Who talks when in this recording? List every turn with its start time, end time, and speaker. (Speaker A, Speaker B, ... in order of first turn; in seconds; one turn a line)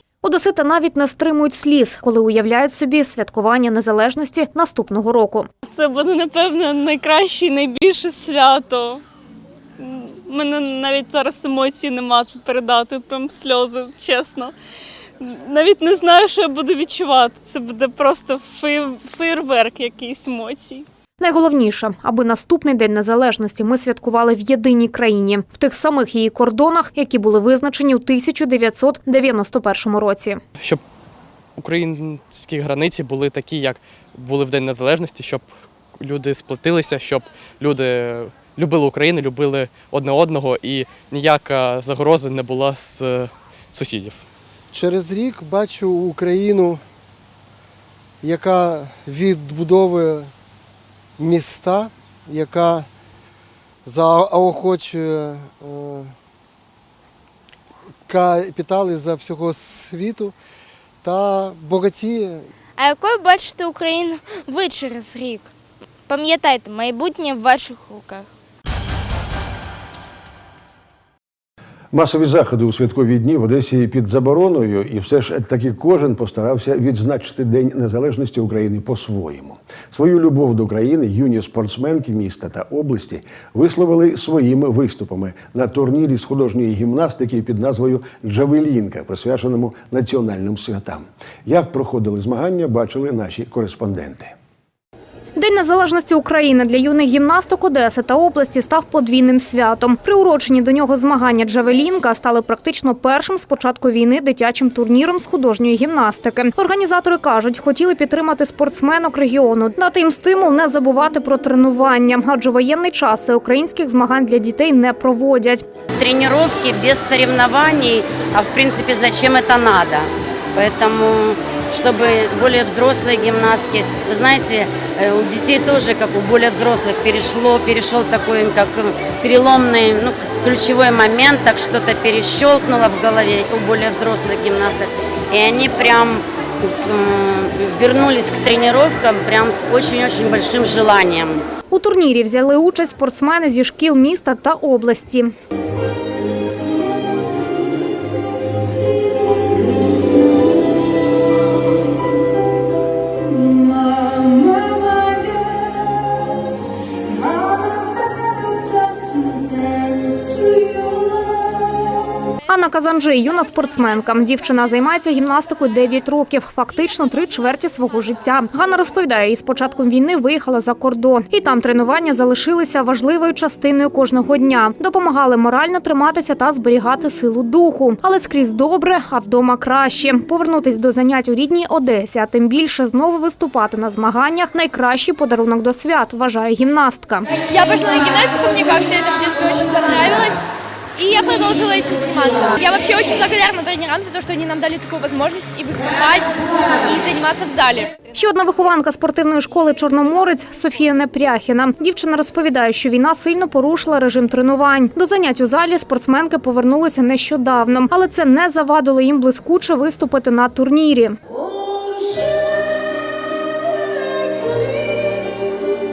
Speaker A: 0.2-5.5
Speaker B: 5.7-9.0
Speaker B: 9.8-14.5
Speaker B: 15.2-20.8
Speaker A: 21.2-30.4
Speaker C: 31.6-44.2
Speaker D: 44.7-46.8
Speaker D: 48.2-50.3
Speaker D: 51.2-52.9
Speaker D: 53.8-56.1
Speaker D: 58.0-60.3
Speaker D: 61.0-62.5
Speaker E: 62.8-65.5
Speaker E: 66.0-68.3
Speaker F: 71.9-94.3
Speaker A: 95.3-115.6
Speaker G: 116.0-141.4
Speaker A: 141.7-145.3
Speaker A: 162.5-187.3
Speaker H: 187.5-190.4
Speaker H: 190.9-197.9
Speaker A: 198.1-211.2